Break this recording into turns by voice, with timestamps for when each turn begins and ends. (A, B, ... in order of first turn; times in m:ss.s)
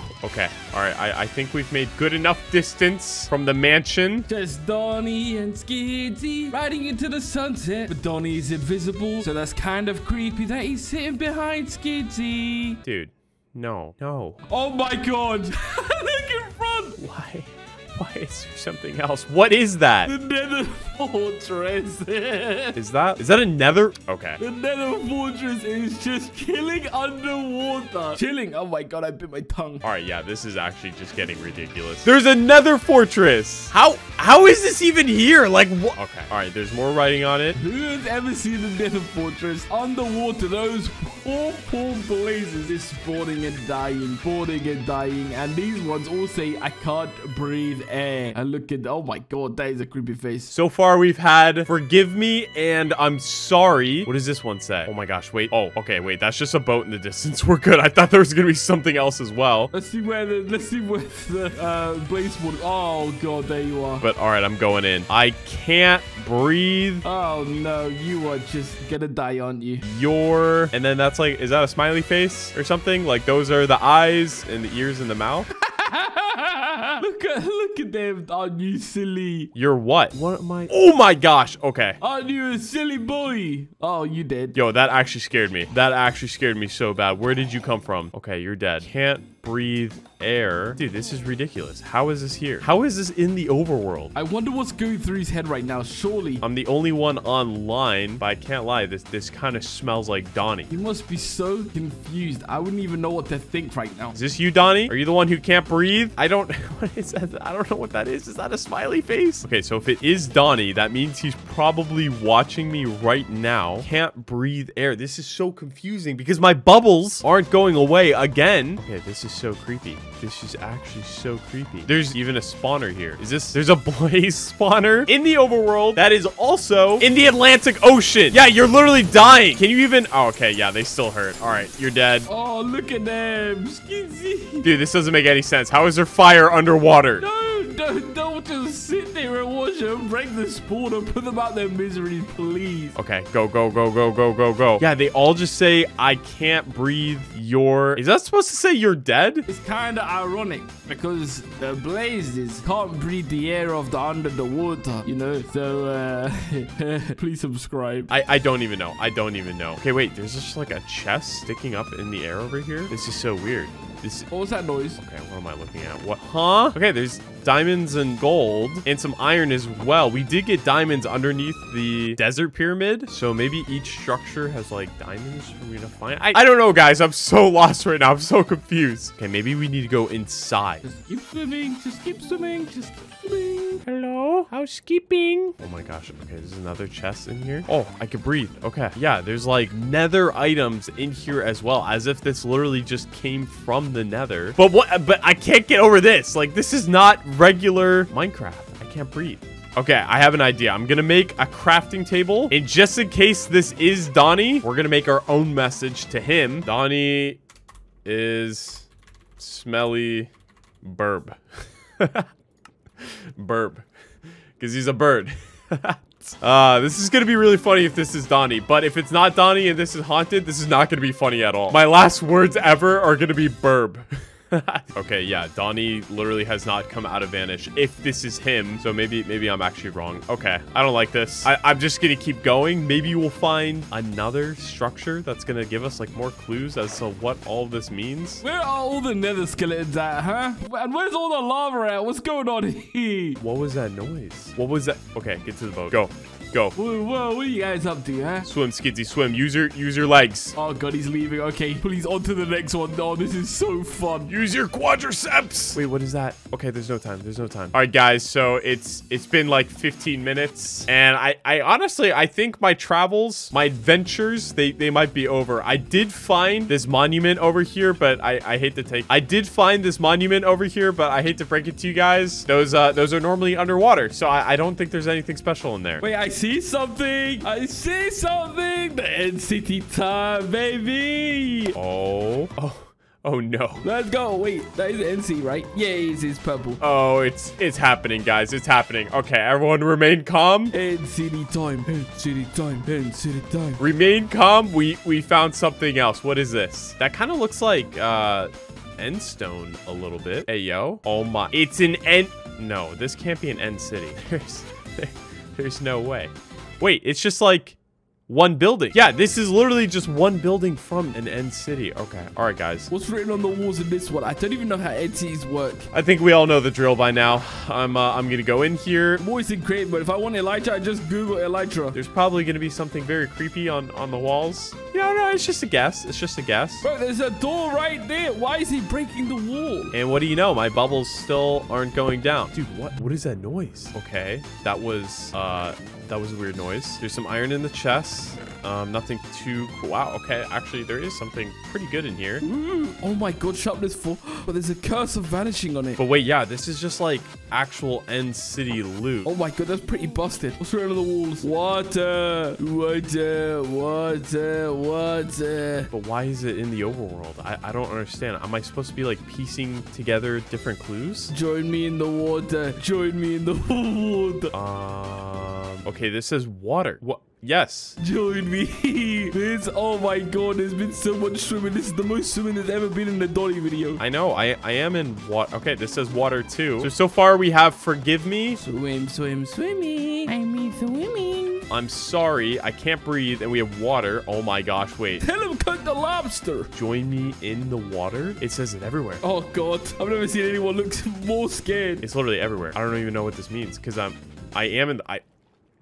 0:00.2-0:04.3 A
0:04.3-0:12.8 B
0:12.8-0:14.4 A
0:14.5-0:17.0 B
0:17.0-0:20.1 A
0:20.1-0:22.8 B
0:22.8-0:24.4 A
0:24.4-0:29.8 B
0:29.8-0:37.6 A
0:37.6-0:50.5 B
0:50.5-0:59.7 A
0:59.7-1:04.0 B
1:04.0-1:07.0 A
1:07.0-1:09.8 B
1:09.8-1:15.5 A
1:15.6-1:19.5 B
1:19.6-1:22.0 A
1:22.0-1:24.6 B
1:24.6-1:34.1 A
1:34.1-1:36.4 B
1:36.4-1:40.7 A
1:40.7-1:44.2 B
1:44.2-2:12.3 A
2:12.3-2:14.7 B
2:14.6-2:17.2 A
2:17.2-2:23.0 B
2:23.0-2:29.4 A
2:29.5-2:38.1 B
2:38.1-2:44.3 A
2:44.3-2:45.0 B
2:45.0-3:00.8 A
3:00.8-3:03.8 B
3:03.8-3:27.4 A
3:28.0-3:28.9 A
3:29.4-3:30.3 A
3:30.8-3:32.3 A
3:33.0-3:33.9 A
3:34.6-3:58.4 A
3:58.4-4:03.4 B
4:03.4-4:06.7 A
4:06.8-4:08.5 B
4:08.5-4:10.6 A
4:10.6-4:14.3 B
4:14.3-4:36.0 A
4:36.0-4:41.8 B
4:41.8-4:43.8 A
4:43.8-4:46.8 B
4:46.8-4:50.7 A
4:50.7-4:53.8 B
4:53.8-5:07.8 A
5:08.3-5:12.9 A
5:12.9-5:15.9 B
5:15.9-5:19.2 A
5:19.2-5:22.0 B
5:21.9-5:26.8 A
5:26.8-5:29.9 B
5:29.9-5:42.4 A
5:42.4-5:46.0 B
5:46.0-5:49.3 A
5:49.2-5:55.9 B
5:55.9-6:01.3 A
6:01.3-6:04.5 B
6:04.5-6:08.0 A
6:08.0-6:14.0 B
6:14.0-6:18.6 A
6:18.6-6:21.7 B
6:21.7-6:25.2 A
6:25.2-6:26.7 B
6:26.7-6:29.2 A
6:29.2-6:32.0 B
6:32.0-6:35.2 A